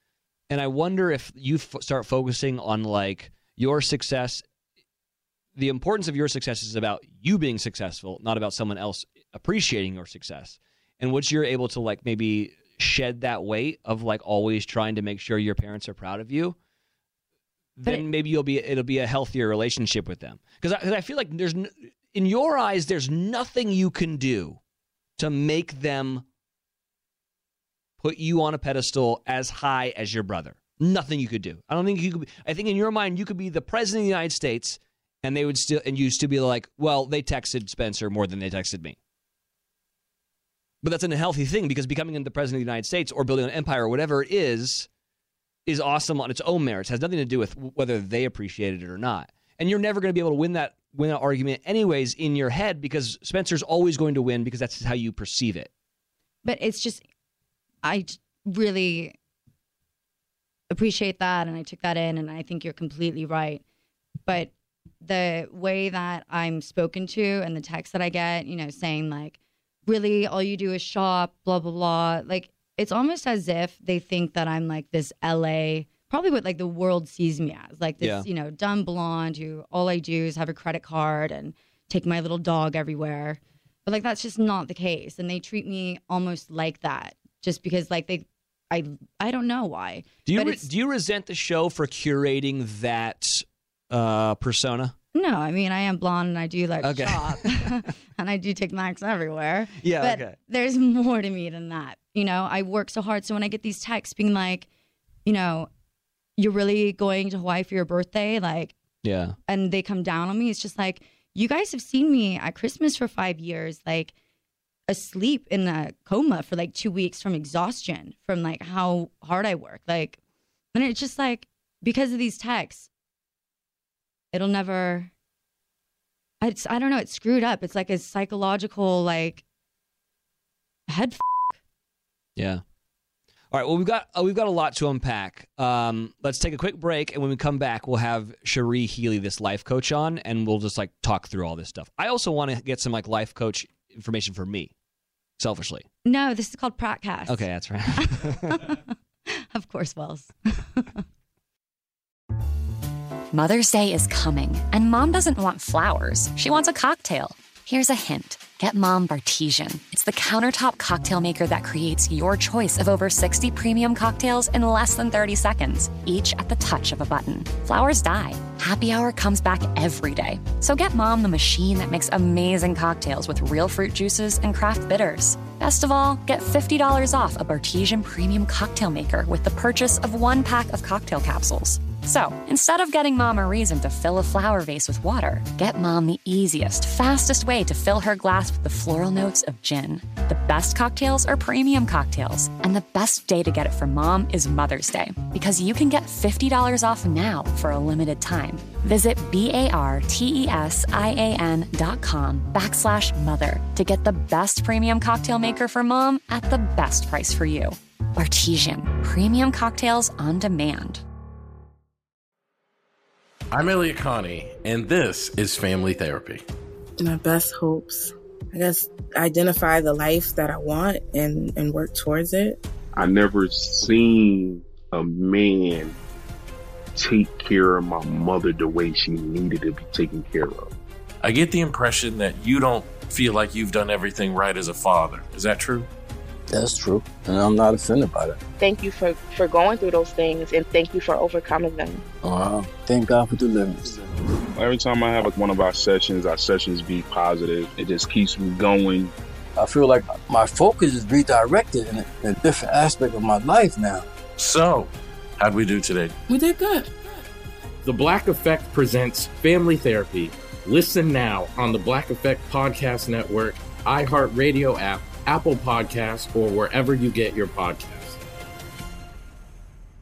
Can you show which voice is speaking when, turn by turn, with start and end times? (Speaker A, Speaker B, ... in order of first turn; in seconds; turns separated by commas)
Speaker A: 0.5-4.4, Speaker A: 5.6-16.6, Speaker A: 17.8-24.6, Speaker A: 25.2-26.2, Speaker A: 28.0-39.0, Speaker A: 40.8-44.9, Speaker A: 45.7-55.7, Speaker B: 56.4-57.0, Speaker B: 57.8-59.2, Speaker B: 60.7-63.6, Speaker B: 64.3-90.7, Speaker A: 78.0-78.3, Speaker A: 90.3-94.9, Speaker B: 95.1-104.7, Speaker A: 96.8-97.8, Speaker A: 99.8-100.4, Speaker B: 105.2-105.7, Speaker B: 106.4-108.8, Speaker A: 109.0-109.4, Speaker B: 109.5-114.1, Speaker B: 114.9-120.2, Speaker B: 120.7-122.9, Speaker B: 124.3-125.1, Speaker B: 126.4-129.4, Speaker B: 130.9-131.6, Speaker A: 132.4-132.6, Speaker A: 133.5-144.7, Speaker A: 145.4-145.8, Speaker B: 146.1-151.0, Speaker A: 147.3-148.7, Speaker C: 153.3-211.0, Speaker D: 213.6-216.4, Speaker E: 217.0-222.6, Speaker F: 223.0-226.0, Speaker F: 226.9-230.7, Speaker G: 236.5-238.4, Speaker H: 238.6-242.0, Speaker G: 242.2-244.1, Speaker F: 244.6-249.1, Speaker G: 249.6-254.1, Speaker E: 256.3-256.9, Speaker D: 257.8-268.2